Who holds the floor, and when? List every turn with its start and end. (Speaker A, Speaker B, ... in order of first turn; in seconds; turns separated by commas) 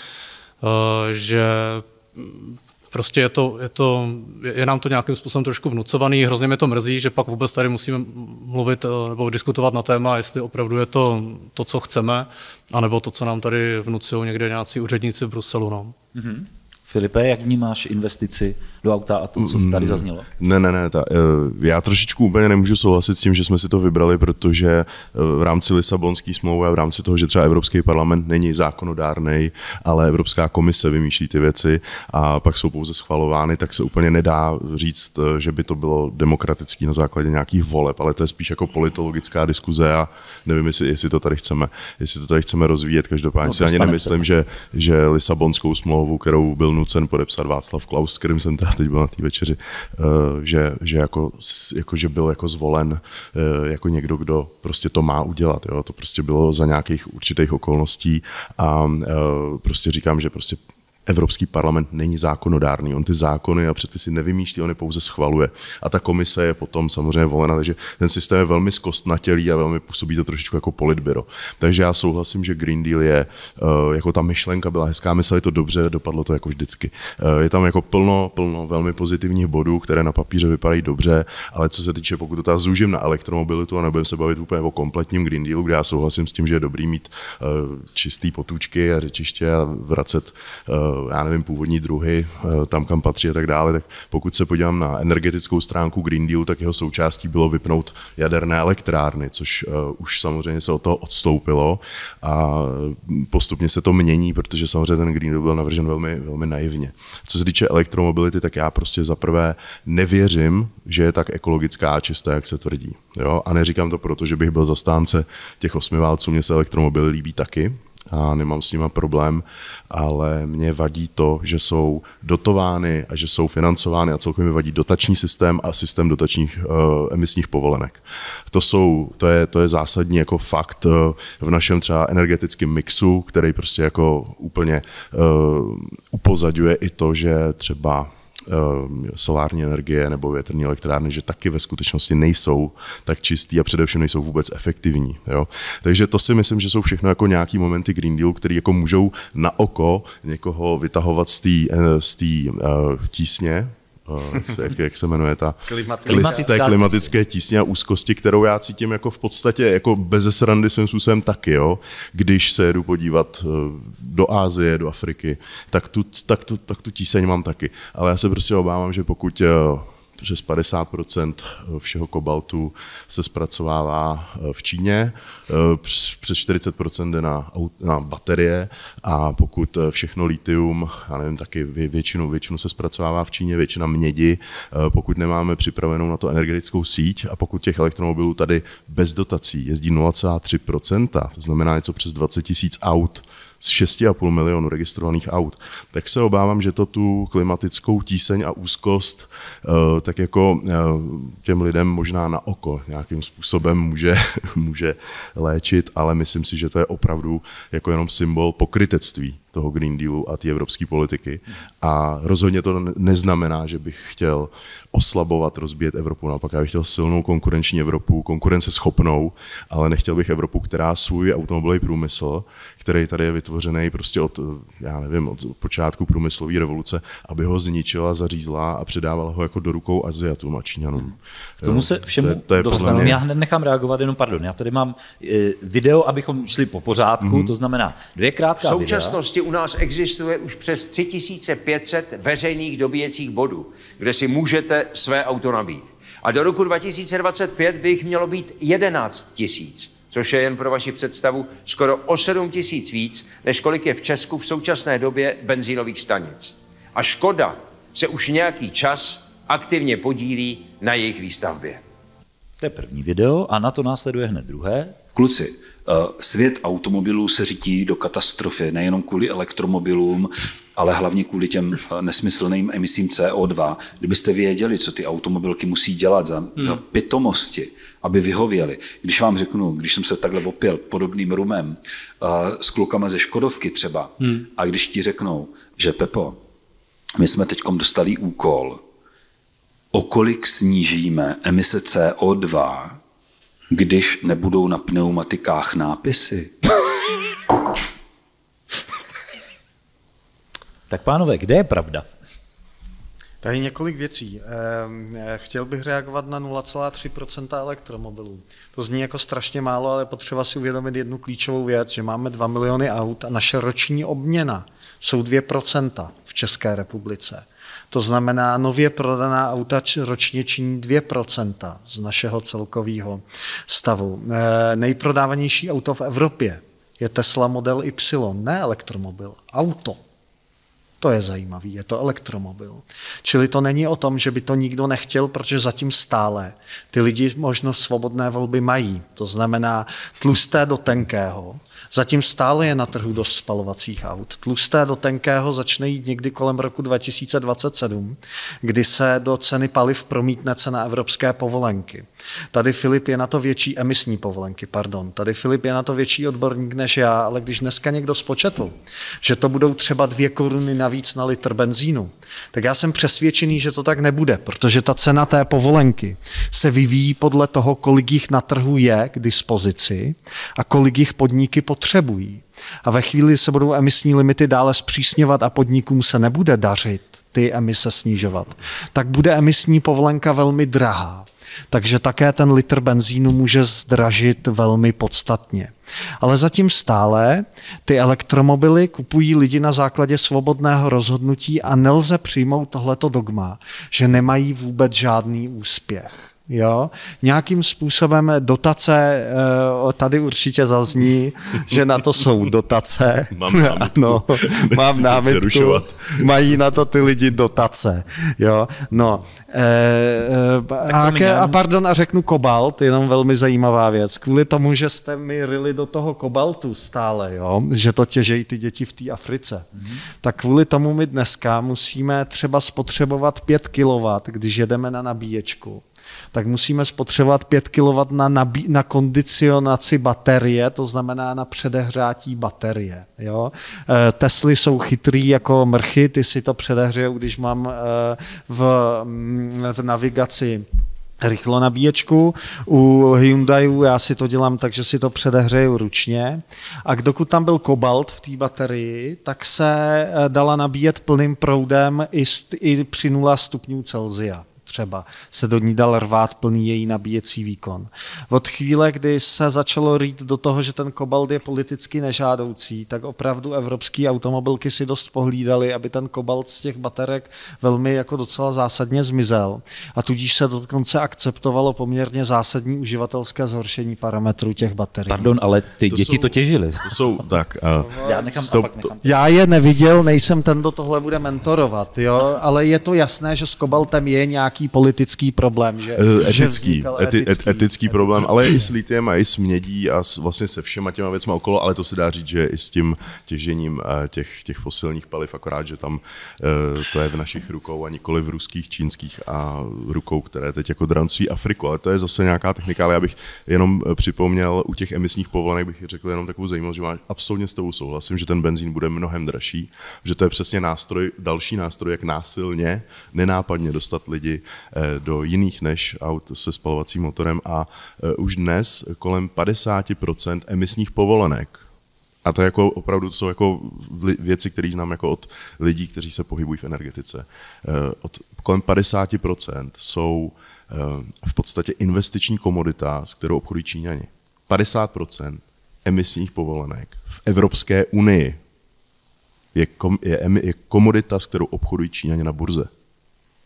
Speaker A: 0.6-15.9, Speaker B: 16.1-20.3, Speaker C: 19.4-233.2, Speaker B: 43.4-44.2, Speaker D: 155.7-156.5, Speaker B: 156.1-157.1, Speaker B: 231.6-239.2, Speaker D: 232.7-233.1, Speaker C: 237.2-237.5, Speaker E: 238.6-261.8, Speaker B: 262.6-265.0, Speaker F: 265.1-286.4, Speaker F: 287.2-288.8, Speaker F: 289.9-293.0, Speaker F: 293.7-296.6, Speaker B: 300.9-302.1, Speaker D: 303.4-330.0, Speaker D: 331.0-419.7, Speaker C: 403.3-406.3, Speaker B: 410.9-411.6, Speaker D: 420.2-440.6, Speaker D: 441.2-475.3, Speaker B: 475.1-477.1, Speaker C: 475.9-477.9, Speaker D: 477.8-488.6, Speaker B: 478.0-479.1, Speaker C: 478.5-478.9, Speaker C: 485.9-521.6, Speaker C: 522.2-538.4, Speaker C: 539.5-542.7